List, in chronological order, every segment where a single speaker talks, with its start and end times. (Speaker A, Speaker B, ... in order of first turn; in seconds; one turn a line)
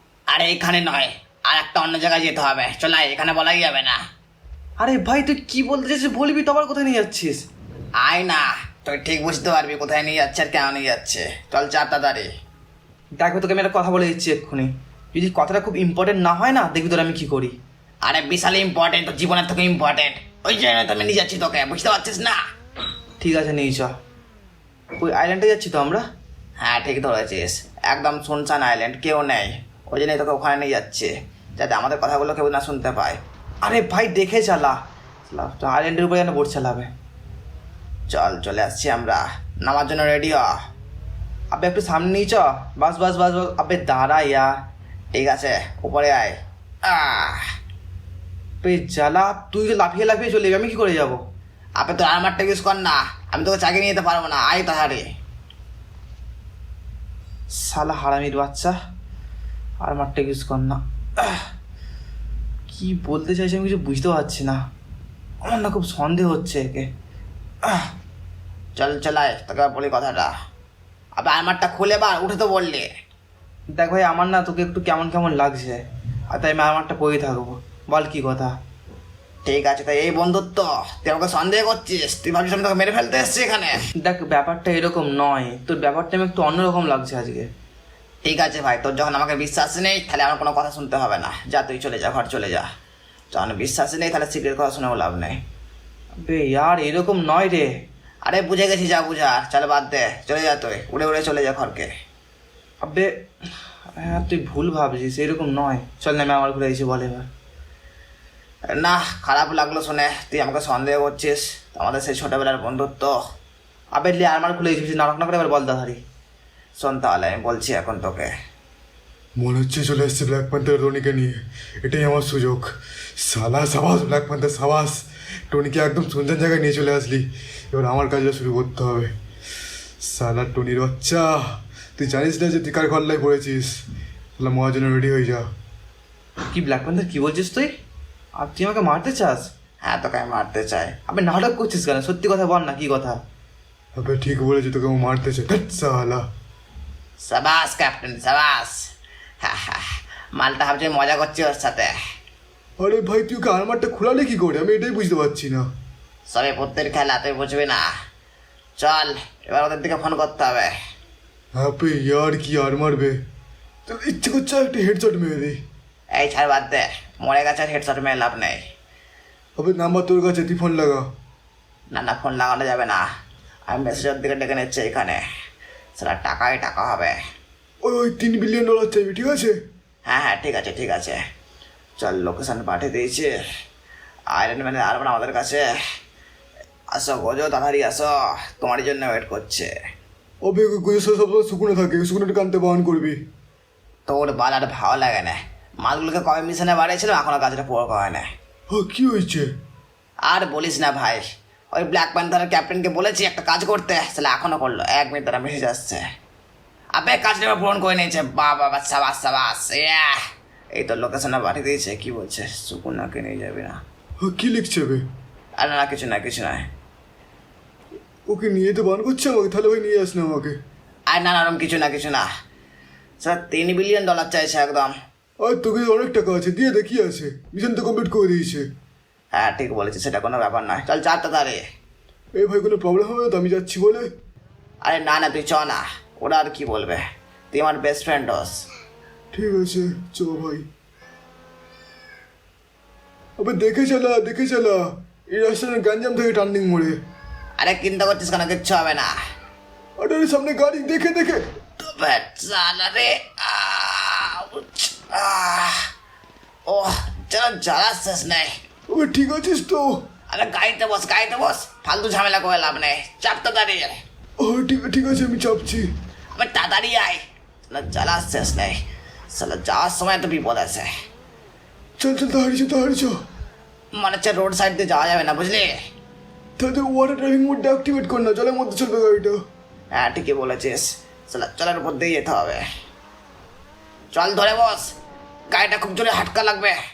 Speaker A: 0.3-4.0
Speaker B: 4.8-7.4
Speaker A: 8.0-12.3
Speaker B: 13.2-17.5
Speaker A: 18.0-22.4
Speaker B: 23.2-23.9
Speaker B: 25.0-26.0
Speaker A: 26.6-33.2
Speaker B: 33.6-36.9
Speaker A: 38.1-40.5
Speaker B: 41.5-44.5
Speaker A: 45.1-47.4
Speaker B: 48.6-51.2
Speaker A: 51.8-55.0
Speaker B: 57.6-58.7
Speaker B: 59.8-61.4
Speaker B: 62.7-64.6
Speaker B: 65.4-66.9
Speaker A: 68.8-70.3
Speaker A: 71.2-72.9
Speaker B: 73.7-78.5
Speaker A: 79.4-83.8
Speaker B: 84.0-87.5
Speaker A: 88.2-92.7
Speaker A: 93.3-95.4
Speaker B: 96.2-97.7
Speaker A: 98.2-101.9
Speaker B: 102.8-103.1
Speaker B: 103.9-107.3
Speaker A: 108.7-113.1
Speaker B: 113.9-116.0
Speaker A: 116.8-118.3
Speaker C: 119.4-129.1
Speaker C: 130.0-133.8
Speaker C: 134.4-135.4
Speaker B: 136.5-137.7
Speaker B: 138.4-139.5
Speaker A: 139.8-140.9
Speaker B: 141.1-143.2
Speaker C: 143.9-146.2
Speaker A: 147.2-148.8
Speaker A: 149.4-149.8
Speaker A: 150.4-151.9
Speaker C: 152.8-155.7
Speaker A: 156.3-157.8
Speaker A: 158.8-160.7
Speaker C: 161.5-163.1
Speaker C: 163.9-165.6
Speaker A: 166.2-168.6
Speaker C: 169.6-171.0
Speaker A: 171.9-173.0
Speaker A: 173.7-175.2
Speaker A: 176.0-177.2
Speaker C: 177.8-179.5
Speaker A: 180.1-181.2
Speaker A: 182.0-183.3
Speaker A: 184.3-185.6
Speaker A: 186.9-189.7
Speaker C: 190.4-193.2
Speaker A: 194.1-198.2
Speaker C: 198.7-199.5
Speaker A: 200.3-206.0
Speaker A: 206.9-210.2
Speaker A: 210.8-213.8
Speaker C: 214.2-215.0
Speaker A: 215.6-216.7
Speaker C: 218.3-220.6
Speaker A: 221.1-222.2
Speaker A: 223.2-224.9
Speaker C: 225.4-228.6
Speaker A: 229.3-231.6
Speaker C: 232.4-234.1
Speaker A: 234.8-238.6
Speaker C: 239.3-240.7
Speaker C: 243.4-247.0
Speaker A: 247.6-249.1
Speaker C: 250.0-251.4
Speaker A: 251.8-255.8
Speaker A: 256.7-258.5
Speaker C: 258.9-260.0
Speaker A: 260.3-264.0
Speaker C: 264.4-265.9
Speaker A: 266.3-268.8
Speaker A: 269.3-270.9
Speaker C: 272.0-273.1
Speaker A: 274.0-275.7
Speaker C: 276.6-279.4
Speaker A: 280.0-282.6
Speaker A: 284.1-284.9
Speaker A: 285.5-286.8